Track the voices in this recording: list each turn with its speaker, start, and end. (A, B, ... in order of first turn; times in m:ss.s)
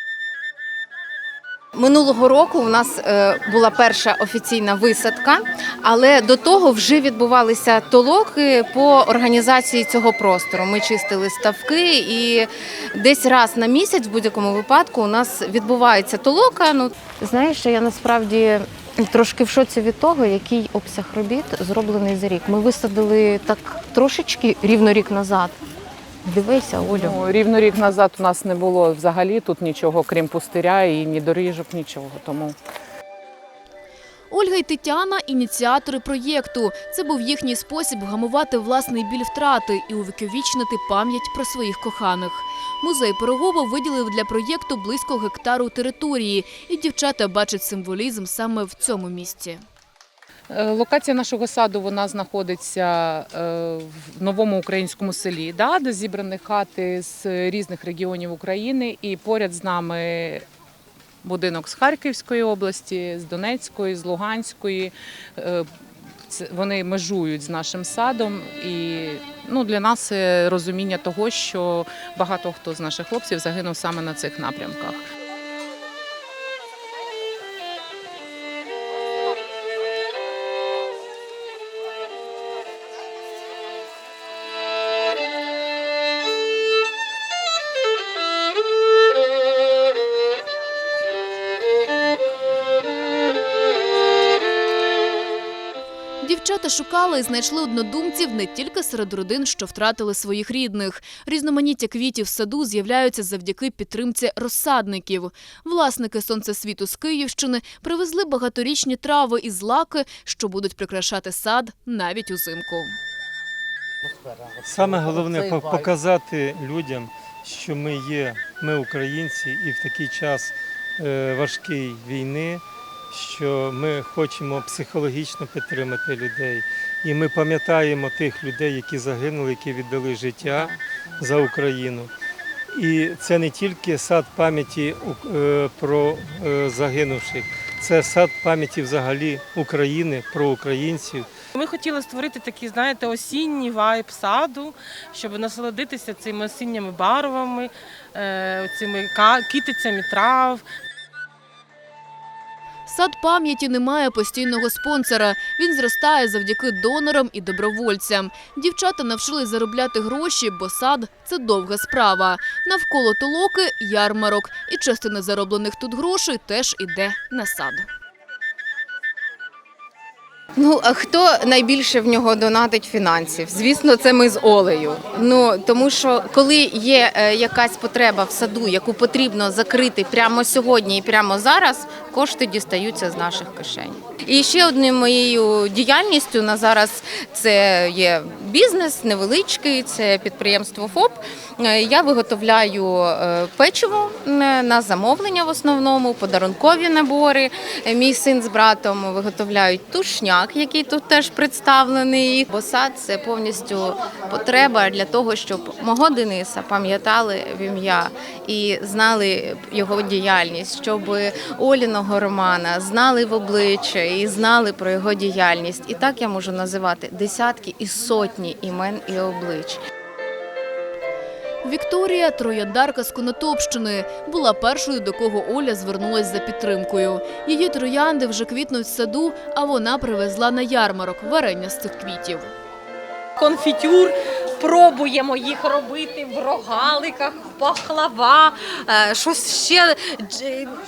0:01.8-0:25.6 A
0:26.2-0:27.2 A
0:26.9-0:32.6 B
0:34.3-0:49.6 C
0:50.5-1:00.4 B
1:01.2-1:05.7 B
1:06.3-1:15.1 B
1:36.2-1:52.9 C
1:54.6-2:12.1 D
2:12.7-2:21.3 D
2:21.6-2:30.6 E
2:32.9-2:47.9 C
2:50.6-3:39.8 A
3:41.6-3:52.5 C
3:53.4-4:00.7 F